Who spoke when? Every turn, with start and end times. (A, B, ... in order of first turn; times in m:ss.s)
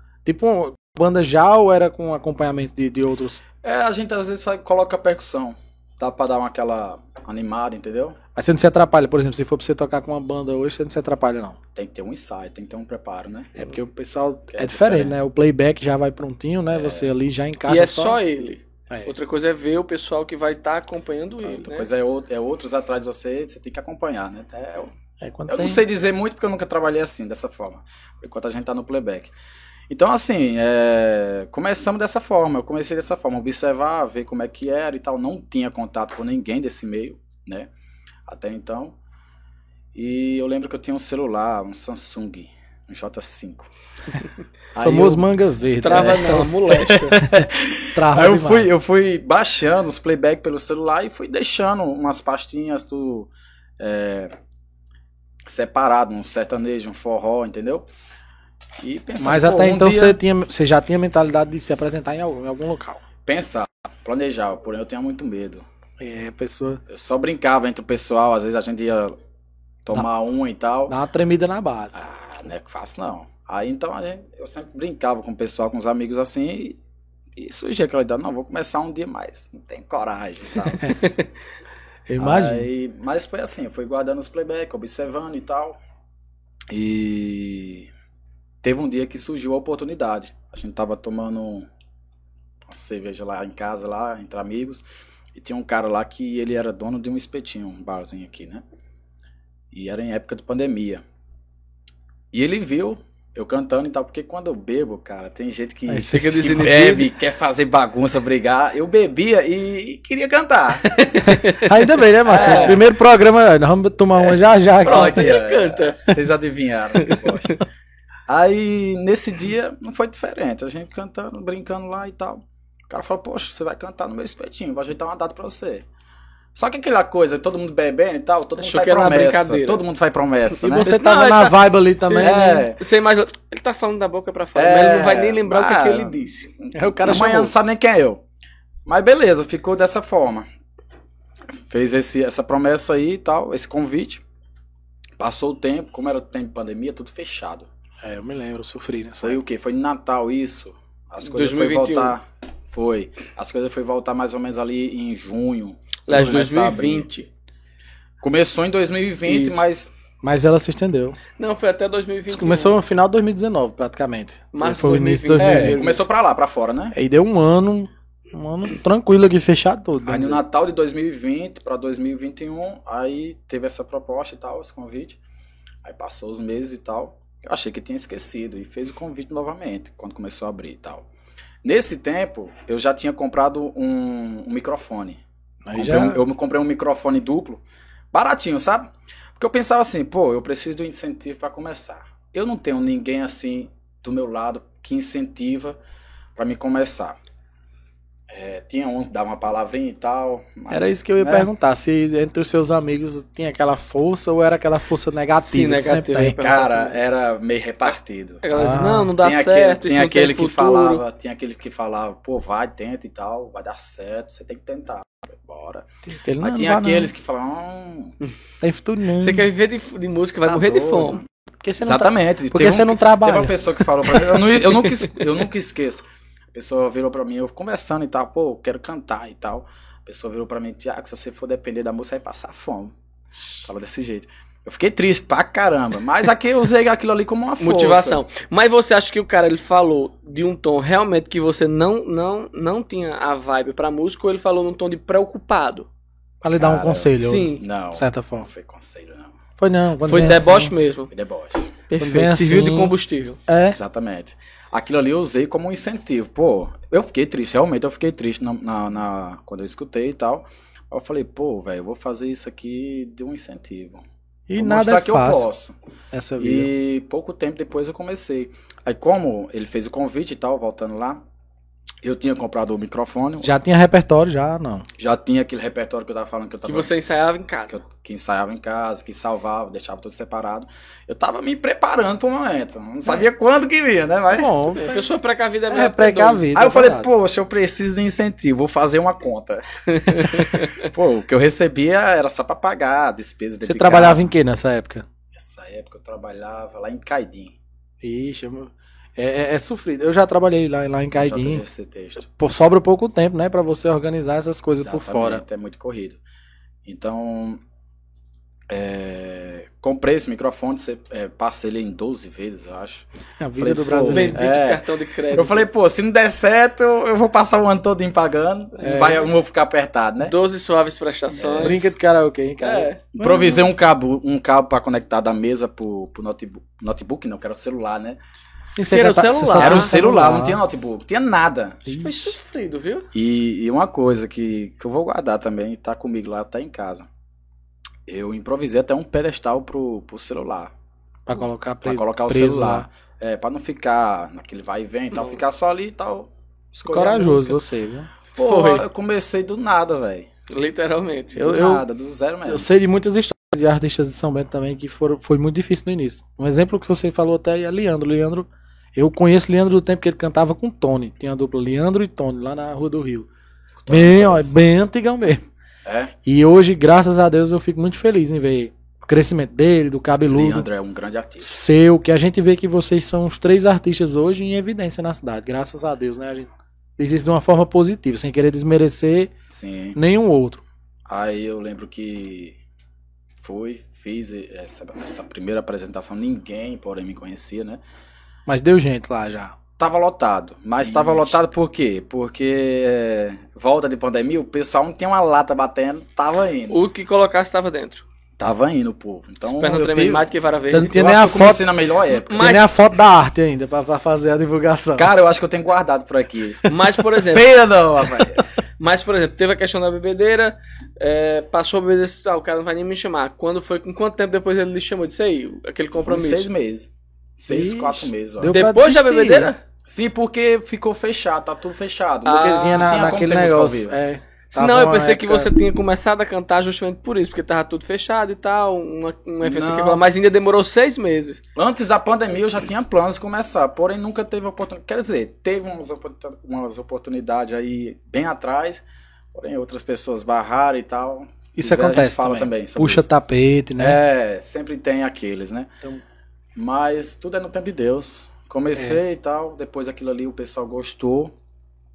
0:00.2-0:03.4 A
0:03.6-0:08.2 B
0:08.4-0:11.6 A
0:11.8-0:13.6 B
0:13.6-0:18.2 A
0:14.5-0:15.2 B
0:16.7-0:17.1 B
0:17.7-0:21.9 C
0:21.4-0:24.9 B
0:25.2-0:25.8 A
0:25.5-0:29.3 B
0:29.9-0:37.7 B
0:38.3-0:39.0 B
0:39.9-0:43.7 B
0:44.7-0:45.2 B
0:44.8-0:47.4 A
0:45.8-0:47.2 C
0:45.9-0:54.3 B
0:47.9-0:48.7 A
0:55.5-0:57.9 B
0:58.8-1:00.2 B
0:59.2-1:03.0 A
1:03.3-1:05.6 B
1:06.0-1:06.8 A
1:06.9-1:09.2 B
1:09.8-1:10.9 B
1:10.9-1:12.0 A
1:11.9-1:16.8 B
1:17.4-1:21.0 B
1:22.1-1:22.7 A
1:22.2-1:25.8 B
1:26.7-1:27.9 B
1:28.6-1:31.7 B
1:32.7-1:38.6 B
1:39.7-1:41.0 B
1:42.3-1:51.4 B
1:45.9-1:46.7 A
1:46.1-1:47.1 C
1:50.9-1:52.8 C
1:51.2-1:55.3 A
1:52.2-1:52.8 B
1:54.8-1:57.6 B
1:54.8-1:56.3 C
1:56.9-1:57.6 C
1:58.3-2:05.8 B
2:06.6-2:10.9 B
2:08.6-2:09.8 C
2:10.6-2:12.7 A
2:10.8-2:16.5 C
2:12.2-2:12.8 B
2:14.6-2:18.2 B
2:16.7-2:17.5 A
2:18.9-2:20.5 B
2:21.5-2:24.2 B
2:25.2-2:27.7 B
2:28.0-2:29.4 A
2:29.2-2:37.1 B
2:31.2-2:32.2 C
2:36.1-2:37.3 C
2:38.2-2:39.9 B
2:39.3-2:39.6 C
2:40.2-2:41.2 A
2:41.4-2:42.8 C
2:42.3-2:45.8 A
2:44.5-2:46.0 C
2:45.4-2:47.0 B
2:46.9-2:50.4 A
2:50.0-2:55.2 B
2:55.8-3:01.1 B
3:01.6-3:05.2 B
3:05.6-3:06.2 A
3:05.8-3:15.8 B
3:16.4-3:17.2 B
3:18.3-3:21.5 B
3:20.7-3:26.4 A
3:25.4-3:27.0 C
3:26.4-3:28.4 B
3:28.4-3:31.0 C
3:28.5-3:29.1 A
3:29.2-3:35.9 B
3:36.1-3:37.1 A
3:36.4-3:38.2 B
3:38.6-3:39.5 A
3:39.2-3:41.2 C
3:40.5-3:41.2 B
3:41.6-3:43.6 A
3:41.8-3:52.9 B
3:53.6-3:58.2 B
3:57.6-4:05.9 C
4:06.4-4:08.5 A
4:06.6-4:09.4 B
4:07.2-4:07.6 C
4:09.6-4:10.7 A
4:10.0-4:11.1 C
4:11.1-4:11.7 B
4:11.9-4:13.4 C
4:12.0-4:13.0 A
4:13.5-4:13.8 A
4:13.7-4:24.0 B
4:24.5-4:25.5 A
4:24.6-4:25.7 B
4:26.1-4:26.7 A
4:26.4-4:31.2 B
4:32.0-4:33.6 B
4:33.4-4:34.9 A
4:35.0-4:36.9 B
4:36.6-4:37.8 C
4:37.7-4:44.8 B
4:44.3-4:45.1 A
4:44.8-4:46.5 C
4:45.7-4:47.1 A
4:46.6-4:54.3 B
4:49.9-4:50.9 C
4:53.6-4:55.0 A
4:55.3-4:57.6 B
4:58.0-5:01.6 A
5:01.2-5:02.3 B
5:02.3-5:05.4 A
5:04.8-5:06.2 B
5:06.8-5:07.6 B
5:08.7-5:13.1 B
5:13.4-5:14.4 A
5:13.6-5:20.4 B
5:14.1-5:15.6 C
5:18.8-5:19.2 A
5:18.8-5:19.2 C
5:20.2-5:21.9 C
5:21.4-5:21.8 B
5:21.6-5:23.7 A
5:22.6-5:23.0 C
5:23.1-5:28.2 B
5:28.7-5:30.6 A
5:28.8-5:29.9 C
5:29.6-5:31.9 B
5:31.9-5:32.3 A
5:31.9-5:33.1 C
5:33.1-5:37.1 B
5:38.1-5:40.7 B
5:41.3-5:42.9 A
5:41.8-5:47.6 B
5:46.8-5:48.1 A
5:48.4-5:50.3 B
5:48.4-5:48.8 C
5:50.5-5:51.5 C
5:51.4-5:52.7 B
5:51.4-5:51.8 A
5:52.5-6:03.3 A
6:03.8-6:04.6 B
6:03.9-6:05.4 A
6:05.8-6:06.1 B
6:06.2-6:10.7 A
6:10.2-6:11.6 B
6:11.4-6:19.3 A
6:19.5-6:20.0 B
6:20.0-6:20.6 A
6:21.1-6:22.6 B
6:23.4-6:27.8 B
6:28.5-6:29.6 A
6:29.8-6:36.8 B
6:30.8-6:31.3 A
6:36.7-6:38.0 C
6:38.4-6:42.6 B
6:39.5-6:41.0 C
6:40.7-6:41.6 A
6:42.3-6:42.7 C
6:42.4-6:45.1 A
6:45.0-6:48.4 B
6:46.7-6:47.5 C
6:48.8-6:56.5 C
6:56.0-6:58.6 B
6:57.5-6:59.5 A
6:58.5-6:59.6 C
6:59.8-7:04.0 B
7:02.2-7:02.9 C
7:02.3-7:05.5 A
7:04.5-7:11.4 C
7:09.4-7:10.0 B
7:11.6-7:18.8 B
7:19.3-7:23.1 B
7:21.6-7:24.0 A
7:23.8-7:25.7 B
7:26.6-7:31.3 B